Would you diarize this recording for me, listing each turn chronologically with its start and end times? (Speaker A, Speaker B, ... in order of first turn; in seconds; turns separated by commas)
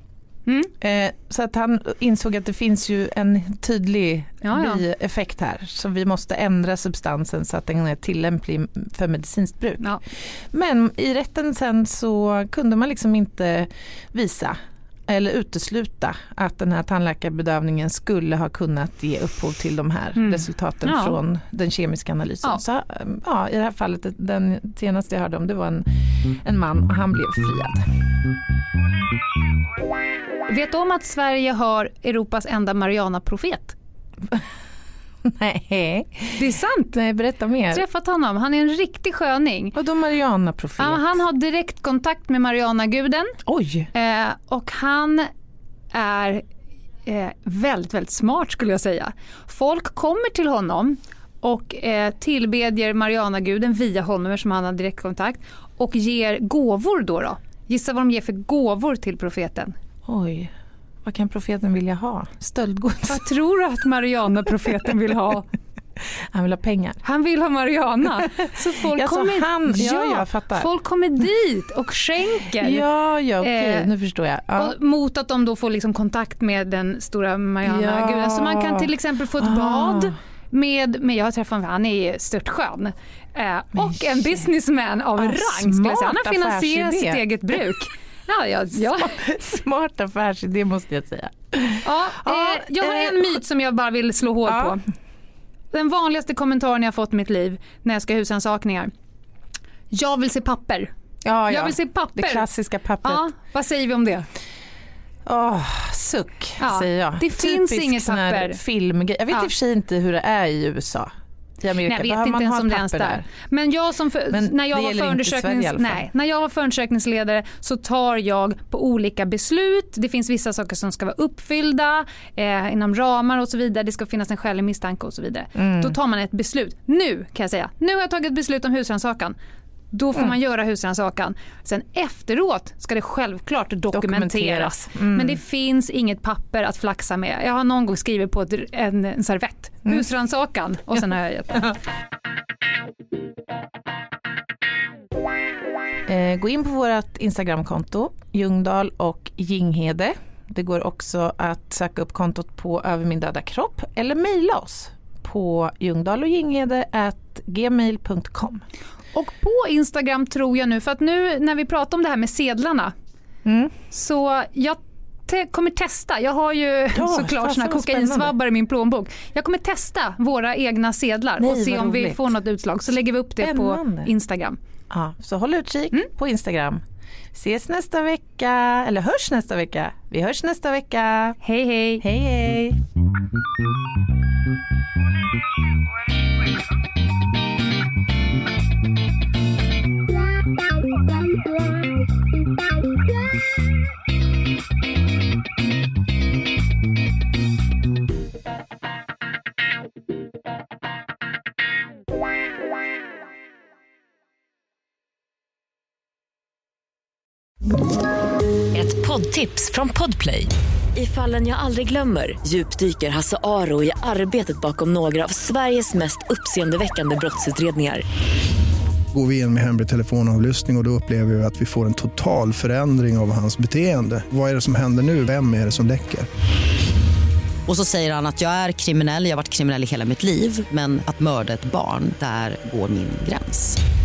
Speaker A: 0.8-25.9, Speaker B: 4.4-4.8, Speaker B: 20.1-21.1, Speaker A: 26.4-27.9, Speaker B: 30.5-33.8, Speaker A: 35.2-37.8, Speaker B: 36.4-37.0, Speaker B: 37.7-39.7, Speaker A: 39.7-41.1, Speaker B: 40.8-43.4, Speaker A: 43.5-43.9, Speaker B: 43.9-45.3, Speaker B: 45.9-46.4, Speaker B: 47.0-59.7, Speaker A: 60.1-60.5, Speaker A: 61.0-63.3, Speaker B: 63.1-65.5, Speaker A: 66.3-67.0, Speaker B: 67.0-72.8, Speaker A: 68.5-70.7, Speaker A: 72.6-74.7, Speaker B: 73.4-73.9, Speaker B: 74.5-89.1, Speaker A: 77.6-80.1, Speaker A: 85.2-87.2, Speaker A: 88.9-93.3, Speaker B: 91.8-94.8, Speaker A: 94.5-94.8, Speaker B: 95.7-98.9, Speaker B: 99.9-100.9, Speaker A: 101.2-103.3, Speaker B: 101.5-102.5, Speaker B: 103.0-104.3, Speaker A: 105.3-113.3, Speaker B: 106.6-108.6, Speaker B: 111.8-129.4, Speaker A: 114.3-116.0, Speaker A: 125.5-125.9, Speaker B: 129.9-141.7, Speaker A: 133.9-135.4, Speaker A: 146.1-158.6, Speaker B: 159.1-162.9, Speaker A: 163.4-163.7, Speaker B: 163.9-174.6, Speaker A: 166.9-168.3, Speaker A: 171.4-172.3, Speaker A: 173.4-174.1, Speaker A: 174.9-176.8, Speaker A: 177.3-181.4, Speaker B: 181.4-182.0, Speaker A: 182.0-182.8, Speaker C: 208.7-218.0, Speaker D: 219.1-226.3, Speaker E: 227.7-233.8